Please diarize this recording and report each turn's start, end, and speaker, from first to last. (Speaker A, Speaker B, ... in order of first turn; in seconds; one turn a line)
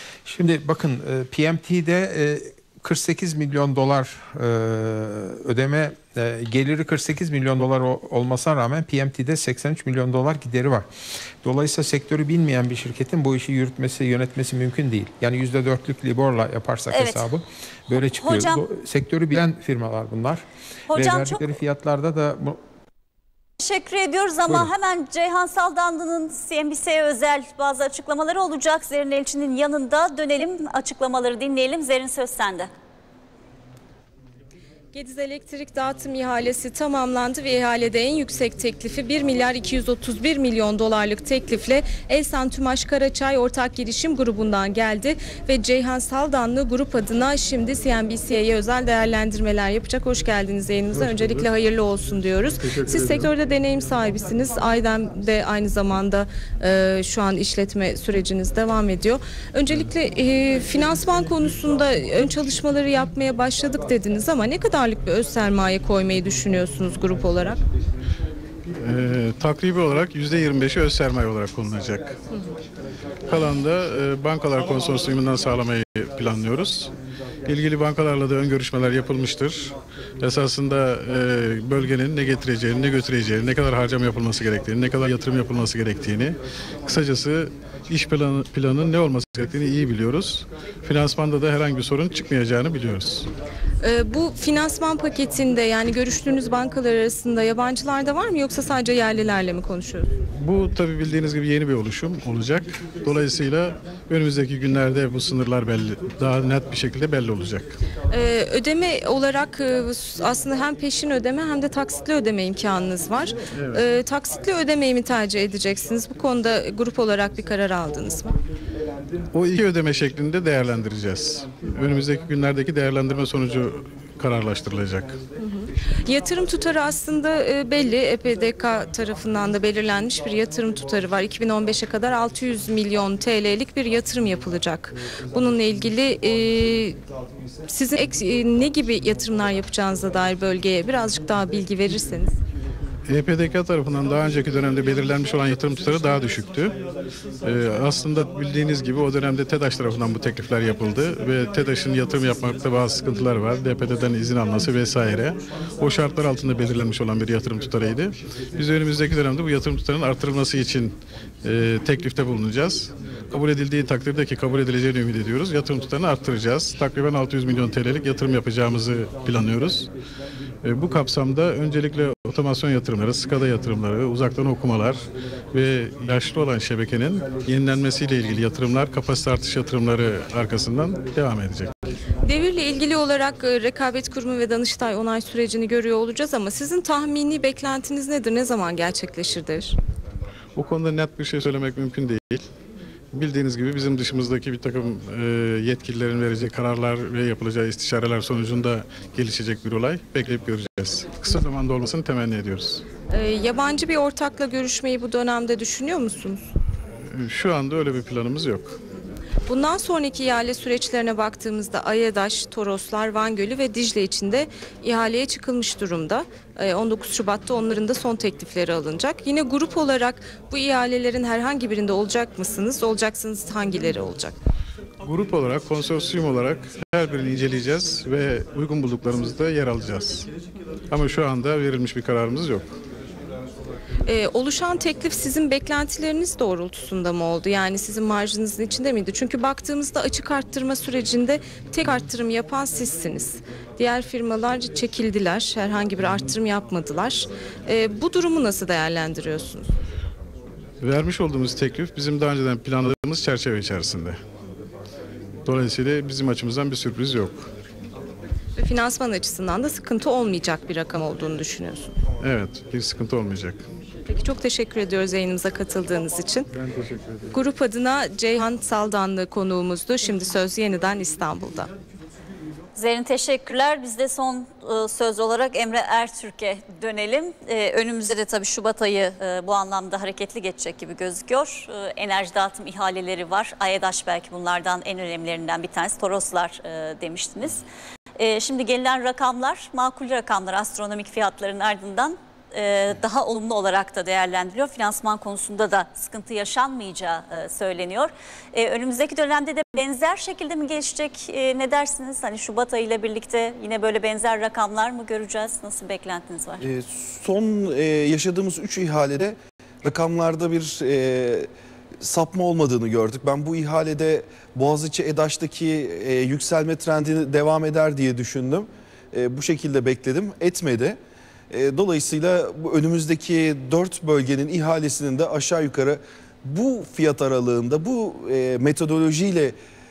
Speaker A: 0.2-10.9
Speaker A: 11.4-22.6
Speaker B: 16.9-17.2
Speaker B: 18.1-18.6
Speaker B: 20.9-21.5
Speaker B: 23.6-32.7
Speaker C: 34.9-67.6
Speaker D: 51.0-51.4
Speaker D: 68.8-72.1
Speaker D: 73.3-76.9
Speaker D: 77.5-93.3
Speaker C: 93.8-100.1
Speaker D: 100.4-107.8
Speaker C: 108.1-118.3
Speaker D: 113.6-113.8
Speaker D: 119.3-125.2
Speaker C: 125.4-137.0
Speaker C: 137.7-142.4
Speaker D: 143.1-146.7
Speaker D: 147.4-169.9
Speaker D: 170.6-181.7
Speaker C: 182.3-189.8
Speaker D: 190.6-192.5
Speaker D: 193.1-202.8
Speaker C: 203.1-206.4
Speaker D: 207.1-208.7
Speaker C: 209.5-224.3
Speaker D: 225.1-230.3
Speaker D: 230.9-232.7
Speaker C: 234.1-249.7
Speaker D: 250.8-254.2
Speaker D: 255.5-257.5
Speaker C: 258.6-261.9
Speaker D: 262.2-263.6
Speaker C: 264.1-266.5
Speaker D: 266.7-267.3
Speaker C: 267.3-271.7
Speaker B: 272.8-287.6
Speaker B: 288.2-306.6
Speaker E: 306.6-311.5
Speaker E: 312.0-321.0
Speaker E: 321.5-329.6